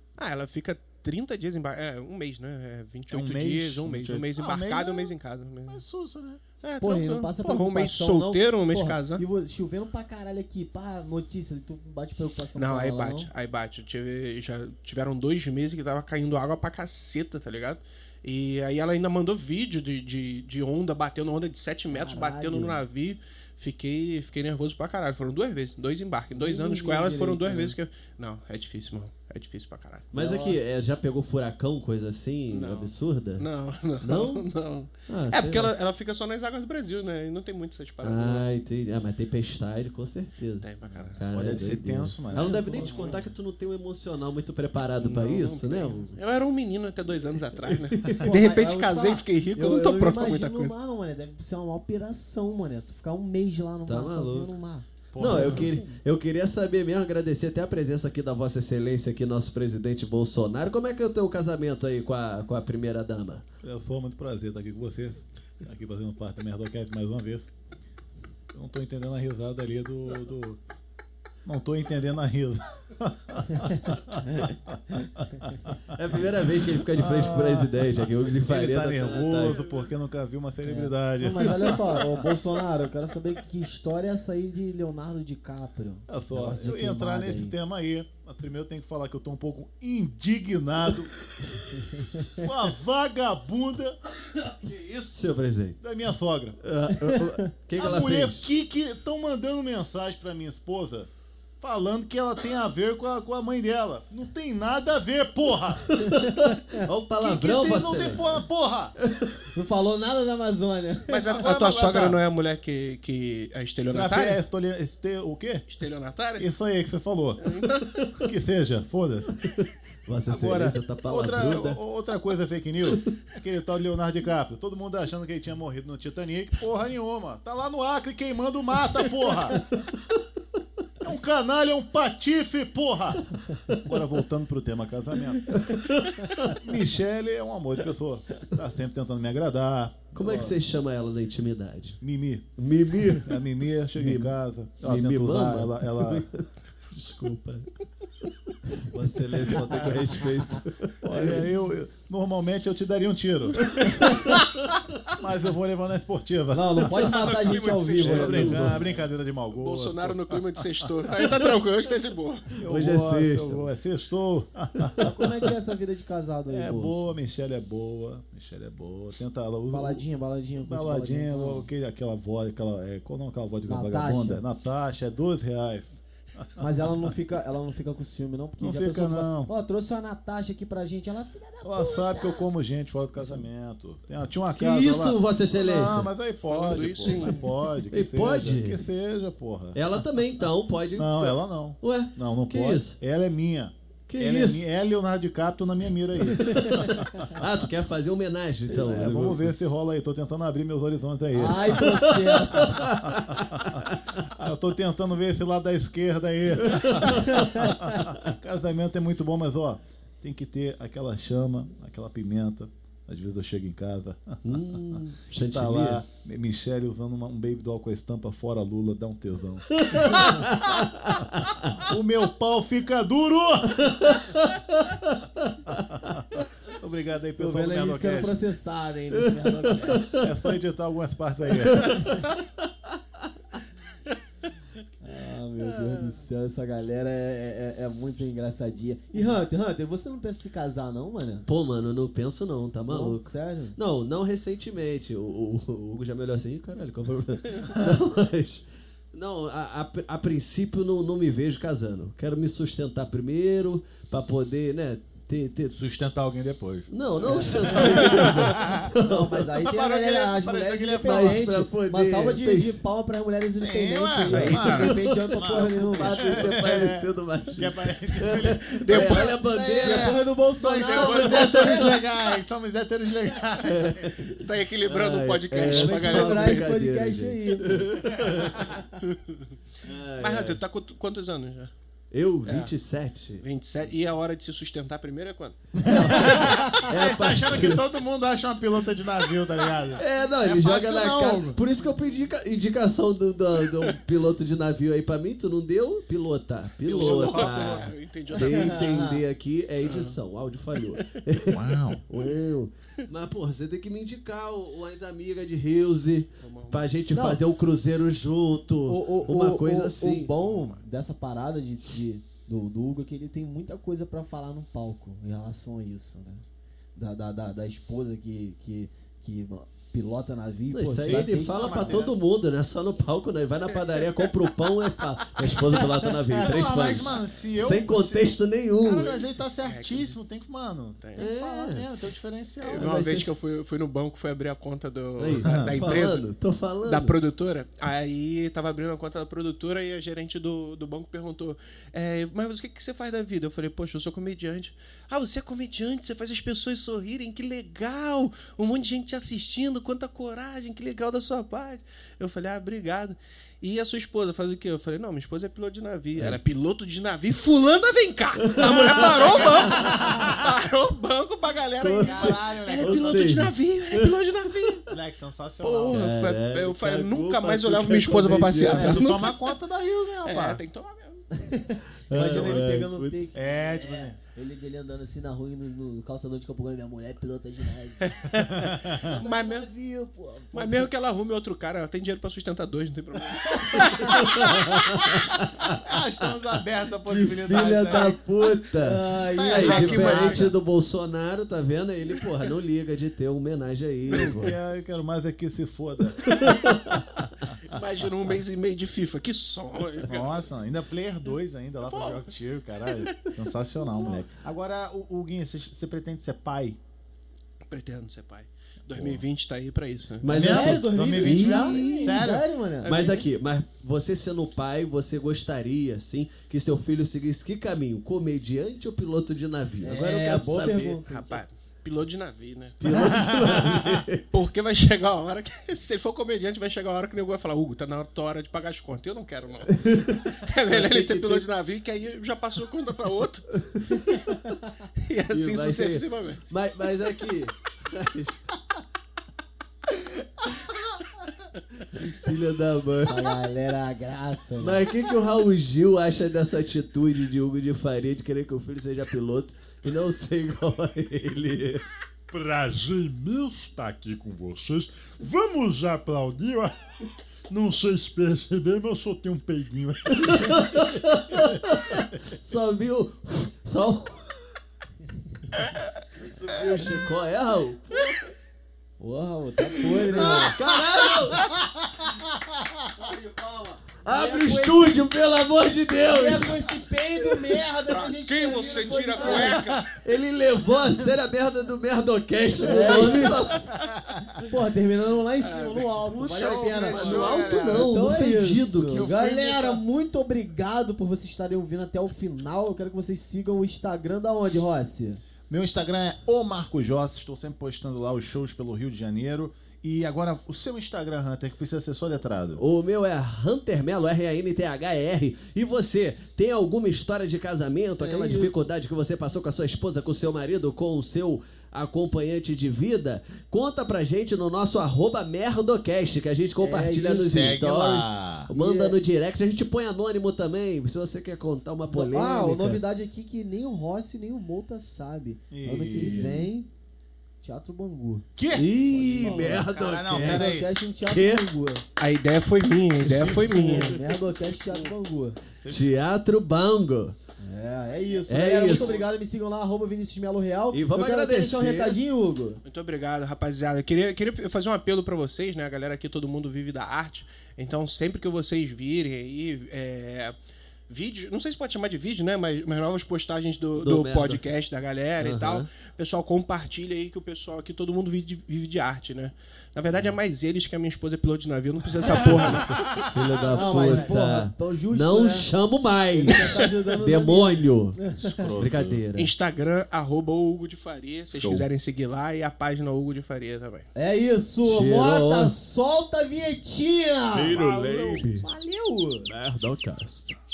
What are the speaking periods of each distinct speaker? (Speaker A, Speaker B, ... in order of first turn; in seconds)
Speaker A: 0.2-5.8, 6.6-9.2, 12.5-30.1, 32.5-38.5, 40.6-41.2, 45.0-50.7, 111.1-114.4, 115.7-116.5, 117.4-117.9, 156.9-158.8, 159.5-162.4, 186.4-187.4, 268.8-269.4, 270.8-271.8, 274.3-276.7, 279.0-279.4, 280.1-281.7, 282.4-282.7, 283.4-285.6, 296.8-298.9, 299.8-300.2, 306.4-307.1, 310.3-310.8, 329.6-330.1, 331.0-331.3, 332.7-336.3, 336.8-364.9, 365.6-369.4, 370.2-371.3, 378.1-379.7, 380.5-384.1, 389.6-390.5, 394.1-394.4, 397.6-400.5, 401.9-402.3, 402.9-403.3, 403.9-404.2, 407.7-410.3, 421.1-422.8, 424.3-433.5, 435.0-436.4, 477.9-479.9, 485.4-485.9, 532.0-534.0, 538.6-539.0, 542.6-550.4, 550.9-562.9, 569.1-573.9
Speaker B: 3.1-5.1, 5.7-6.4, 41.3-43.2, 55.1-56.0, 63.6-67.5, 68.5-70.6, 71.4-74.3, 75.2-77.9, 78.4-82.1, 86.1-91.1, 92.4-94.0, 95.8-96.6, 97.7-101.1, 101.6-105.8, 107.2-108.9, 111.3-112.2, 113.9-115.7, 116.4-117.5, 118.2-119.3, 120.3-129.6, 131.0-135.6, 136.5-140.6, 142.0-142.5, 143.1-146.2, 149.5-150.2, 151.0-153.8, 155.1-160.9, 162.6-165.1, 166.5-170.0, 170.6-177.1, 178.6-179.5, 181.6-190.1, 190.9-197.5, 198.7-202.0, 203.0-220.3, 221.7-224.1, 225.9-228.4, 230.2-232.0, 255.7-258.8, 259.4-261.5, 263.5-274.3, 285.8-291.6, 297.0-297.6, 301.5-302.0, 321.0-322.2, 326.3-332.9, 335.4-335.7, 358.9-360.4, 362.0-363.5, 364.9-366.0, 368.6-370.6, 372.3-372.7, 373.3-374.2, 378.5-379.1, 383.9-384.7, 385.7-388.2, 389.3-390.5, 394.2-396.5, 400.1-406.8, 408.9-409.2, 410.3-412.4, 422.9-423.9, 470.1-470.7, 471.3-472.2, 486.3-487.9, 488.9-489.8, 495.5-502.6, 517.1-518.5, 525.5-526.4, 528.3-530.7, 562.3-562.8, 568.2-569.0, 571.3-571.6
Speaker C: 6.8-13.3, 21.9-22.8, 26.4-27.7, 30.1-30.6, 42.3-43.3, 48.2-55.6, 81.2-87.5, 109.5-111.5, 156.5-158.8, 165.0-167.1, 169.7-171.7, 173.7-174.4, 176.6-182.5, 201.3-202.8, 207.3-207.8, 227.4-230.2, 235.0-241.4, 242.8-243.8, 257.3-258.2, 258.9-266.4, 269.7-272.0, 275.7-278.8, 298.4-299.2, 307.1-307.4, 308.9-316.4, 316.9-322.1, 371.3-380.9, 388.8-389.8, 410.3-413.2, 419.8-421.4, 443.0-444.8, 469.0-470.6, 473.1-473.4, 474.0-475.0, 476.1-479.7, 482.6-483.7, 484.5-495.2, 508.0-508.7, 516.6-517.6, 518.5-519.0, 521.9-526.7, 527.4-528.2, 529.1-531.8, 533.1-535.4, 537.4-542.6, 563.4-565.5, 566.1-568.5, 573.9-577.6, 578.4-579.3
Speaker D: 30.1-33.5, 34.0-34.5, 35.0-35.7, 38.0-40.6, 41.1-46.2, 47.7-48.3, 53.9-54.5, 55.2-63.4, 75.9-79.6, 94.6-95.8, 96.6-98.5, 105.9-108.4, 118.0-118.3, 119.4-121.8, 129.5-129.9, 135.5-136.6, 140.1-142.0, 142.6-143.4, 143.9-147.7, 148.8-151.4, 153.6-154.8, 158.0-158.9, 162.5-163.7, 184.5-186.1, 187.9-188.8, 189.7-193.0, 194.1-194.7, 196.2-199.5, 201.8-204.3, 206.6-208.1, 214.4-216.0, 219.7-221.8, 223.8-226.4, 229.6-230.0, 231.7-232.3, 241.4-255.8, 256.9-259.4, 261.0-262.8, 264.2-270.2, 271.6-271.9, 273.6-278.7, 279.8-280.6, 282.1-283.4, 285.9-287.8, 290.0-310.3, 320.7-329.2, 331.2-331.9, 332.6-333.3, 335.2-337.1, 358.5-359.9, 361.8-364.2, 365.9-369.2, 372.1-373.2, 383.9-385.8, 387.1-394.6, 396.2-397.2, 410.2-412.2, 412.8-421.0, 422.8-424.2, 429.7-431.4, 433.7-434.2, 435.3-438.4, 441.9-443.2, 444.6-451.8, 460.2-464.4, 466.0-467.8, 470.1-471.4, 473.5-476.6, 479.1-483.7, 486.1-489.1, 502.5-522.8, 525.9-526.5, 528.5-531.5, 535.7-537.1, 538.3-539.0, 540.7-542.0, 553.8-554.4, 555.2-555.7, 563.0-568.0, 568.5-569.3, 574.6-575.5, 577.5-578.5, 579.2-580.4
Speaker E: 452.3-456.7, 457.5-460.6, 577.3-578.3